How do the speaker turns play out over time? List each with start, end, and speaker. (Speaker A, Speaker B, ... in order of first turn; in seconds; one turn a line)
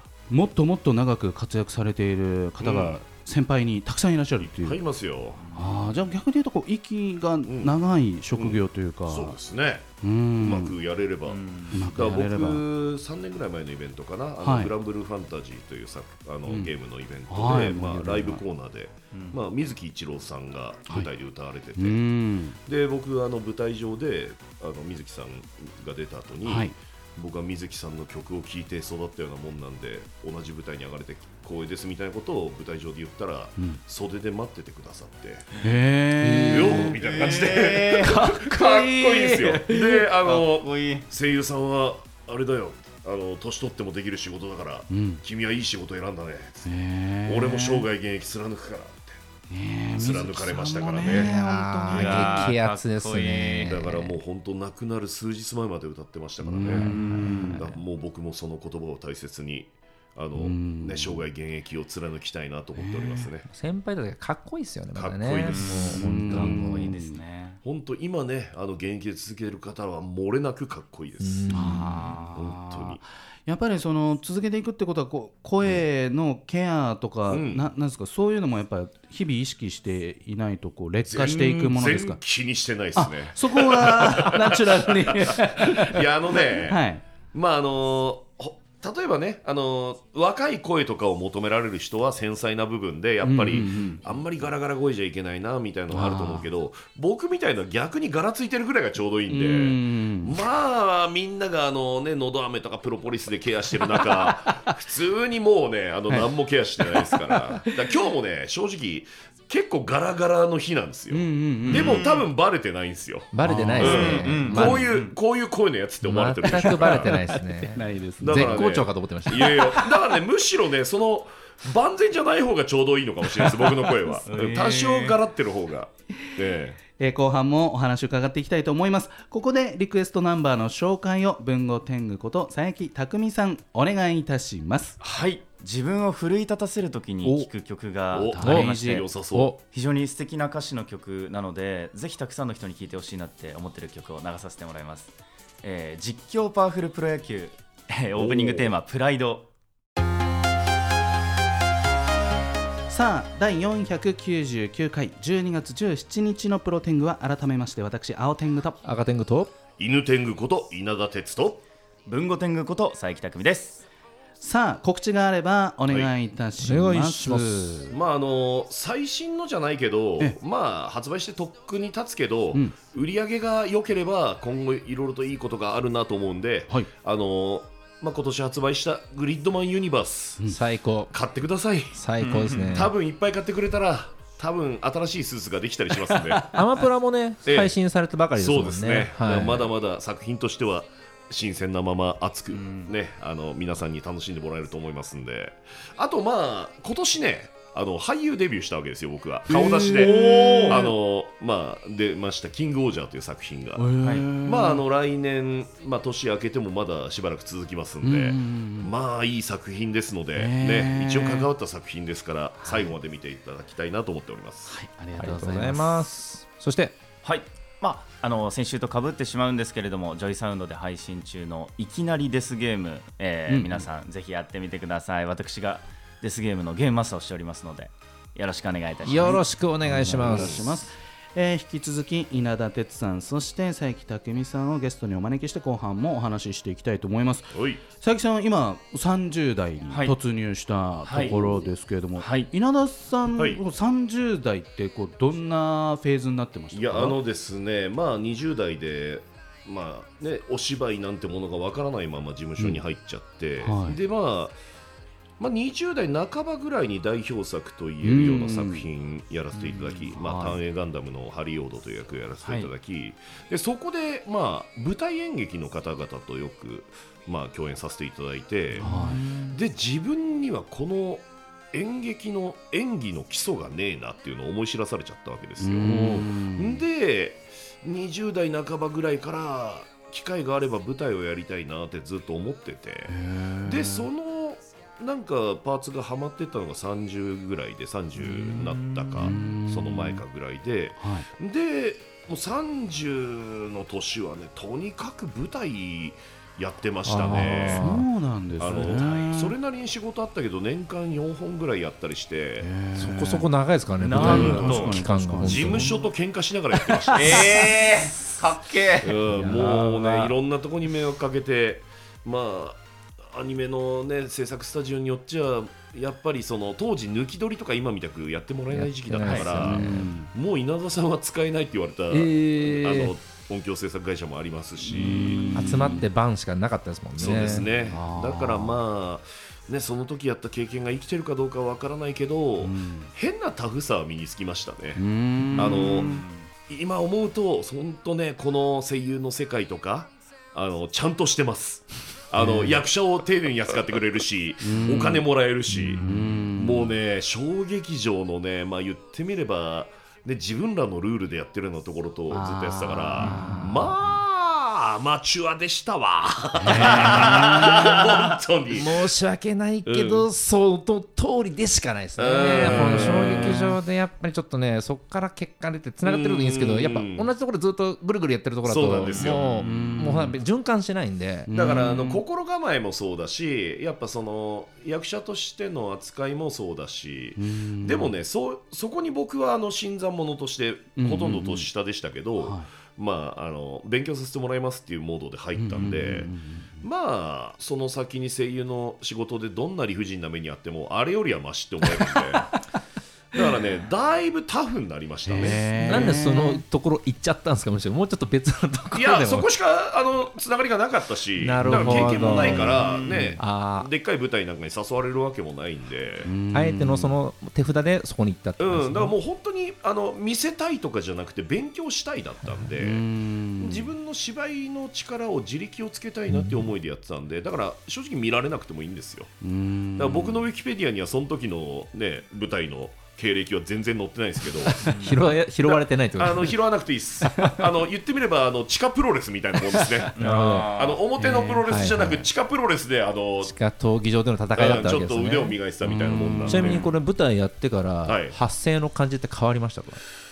Speaker A: 0.3-4.8
Speaker B: 2.6-3.0
Speaker B: 4.4-5.4
Speaker C: 5.4-5.9
Speaker A: 5.5-9.4
Speaker B: 7.5-7.8
Speaker B: 8.4-22.0
Speaker A: 10.0-10.8
Speaker C: 11.3-11.9
Speaker A: 11.7-12.6
Speaker A: 14.4-14.7
Speaker A: 16.5-16.7
Speaker A: 17.3-18.4
Speaker C: 19.1-19.4
Speaker A: 21.8-22.6
Speaker B: 22.6-35.5
Speaker A: 26.4-26.8
Speaker A: 35.6-37.0
Speaker D: 36.2-36.9
Speaker B: 36.5-49.2
Speaker C: 36.8-38.3
Speaker A: 38.0-40.0
Speaker C: 40.2-41.0
Speaker A: 44.9-45.2
Speaker A: 46.6-47.9
Speaker A: 49.5-52.5
Speaker B: 50.0-51.3
Speaker D: 51.0-54.1
Speaker C: 51.9-53.8
Speaker B: 53.6-63.5
Speaker A: 56.4-57.7
Speaker D: 56.7-57.5
Speaker C: 56.7-57.5
Speaker A: 60.4-61.2
Speaker A: 62.8-63.3
Speaker D: 63.5-67.0
Speaker B: 65.0-66.0
Speaker C: 65.5-67.6
Speaker A: 65.9-67.2
Speaker B: 67.6-71.8
Speaker D: 71.2-72.1
Speaker A: 71.5-82.2
Speaker B: 72.3-73.0
Speaker B: 77.3-77.7
Speaker B: 81.0-117.2
Speaker A: 83.0-87.0
Speaker A: 93.2-94.0
Speaker A: 95.9-96.5
Speaker A: 99.3-100.4
Speaker A: 104.0-104.5
Speaker A: 106.8-107.7
Speaker A: 111.1-112.0
Speaker C: 111.7-112.3
Speaker D: 113.3-114.9
Speaker A: 113.4-114.6
Speaker C: 113.8-115.2
Speaker D: 116.0-119.6
Speaker A: 116.6-118.6
Speaker B: 118.2-126.8
Speaker A: 119.4-119.9
Speaker A: 123.4-123.7
Speaker C: 124.3-125.2
Speaker A: 127.0-135.0
Speaker C: 135.0-149.5
Speaker B: 138.1-139.5
Speaker A: 138.2-139.0
Speaker D: 138.4-138.7
Speaker D: 139.3-139.6
Speaker B: 148.2-148.7
Speaker A: 152.9-158.8
Speaker D: 158.8-159.5
Speaker B: 159.8-161.6
Speaker C: 162.1-163.8
Speaker A: 164.4-167.9
Speaker D: 166.6-167.9
Speaker B: 167.9-180.4
Speaker D: 180.5-181.1
Speaker B: 181.1-182.0
Speaker D: 181.9-182.9
Speaker C: 182.2-182.8
Speaker B: 182.7-186.6
Speaker D: 186.5-189.7
Speaker B: 187.5-187.7
Speaker B: 188.3-214.7
Speaker C: 192.5-192.9
Speaker A: 199.5-200.9
Speaker C: 199.9-200.9
Speaker A: 203.8-204.8
Speaker C: 204.0-204.3
Speaker A: 208.0-208.9
Speaker A: 210.3-211.5
Speaker A: 212.6-212.9
Speaker A: 214.7-216.1
Speaker D: 215.2-217.0
Speaker C: 217.2-229.4
Speaker A: 223.5-223.8
Speaker D: 229.0-230.8
Speaker A: 229.1-247.2
Speaker B: 230.1-230.7
Speaker B: 237.5-237.8
Speaker C: 239.9-240.1
Speaker C: 241.0-241.3
Speaker B: 241.2-241.7
Speaker C: 242.2-242.5
Speaker B: 243.4-243.6
Speaker B: 246.7-254.6
Speaker A: 253.6-254.0
Speaker B: 255.4-268.9
Speaker A: 258.0-258.9
Speaker A: 260.1-260.6
Speaker C: 262.4-262.7
Speaker A: 268.8-269.6
Speaker B: 269.5-298.0
Speaker A: 275.6-276.8
Speaker A: 283.1-284.1
Speaker C: 288.5-289.4
Speaker A: 289.1-290.2
Speaker A: 291.0-291.3
Speaker D: 297.0-298.1
Speaker A: 297.2-299.5
Speaker B: 298.6-302.7
Speaker A: 302.6-303.5
Speaker D: 303.0-306.0
Speaker C: 304.0-305.0
Speaker A: 304.0-306.0
Speaker B: 304.2-307.5
Speaker A: 307.1-307.4
Speaker C: 307.1-309.2
Speaker B: 309.0-325.7
Speaker D: 309.2-310.4
Speaker D: 318.7-320.1
Speaker C: 319.2-319.6
Speaker A: 319.6-320.3
Speaker D: 322.1-323.1
Speaker A: 324.9-326.1
Speaker C: 325.0-325.8
Speaker D: 325.5-327.7
Speaker B: 327.1-359.0
Speaker A: 327.4-328.8
Speaker A: 332.6-333.1
Speaker A: 335.0-336.2
Speaker C: 335.6-336.5
Speaker A: 342.4-342.8
Speaker A: 344.6-347.0
Speaker A: 352.3-354.1
Speaker A: 356.6-357.7
Speaker C: 356.9-358.3
Speaker D: 358.7-371.6
Speaker B: 359.9-360.2
Speaker B: 362.2-363.7
Speaker A: 362.6-363.8
Speaker B: 366.0-367.3
Speaker B: 368.6-369.8
Speaker C: 369.2-369.6
Speaker A: 369.5-370.4
Speaker A: 371.5-372.2
Speaker B: 371.5-392.6
Speaker A: 377.4-378.2
Speaker A: 381.0-381.7
Speaker A: 382.4-382.7
Speaker A: 385.6-386.8
Speaker B: 393.3-396.2
Speaker A: 395.3-396.6
Speaker D: 395.4-399.5
Speaker B: 398.9-406.3
Speaker D: 401.4-403.9
Speaker A: 401.6-402.3
Speaker C: 402.2-403.4
Speaker A: 406.2-407.1
Speaker D: 406.5-409.1
Speaker B: 408.6-419.3
Speaker A: 412.7-413.9
Speaker D: 416.3-416.7
Speaker A: 419.4-420.5
Speaker B: 420.0-433.5
Speaker D: 424.8-426.6
Speaker C: 424.8-425.2
Speaker C: 430.1-431.0
Speaker D: 430.2-430.7
Speaker A: 431.2-431.9
Speaker D: 431.7-432.3
Speaker D: 433.4-435.6
Speaker B: 434.5-436.9
Speaker A: 435.8-436.9
Speaker D: 436.5-440.0
Speaker B: 438.0-438.4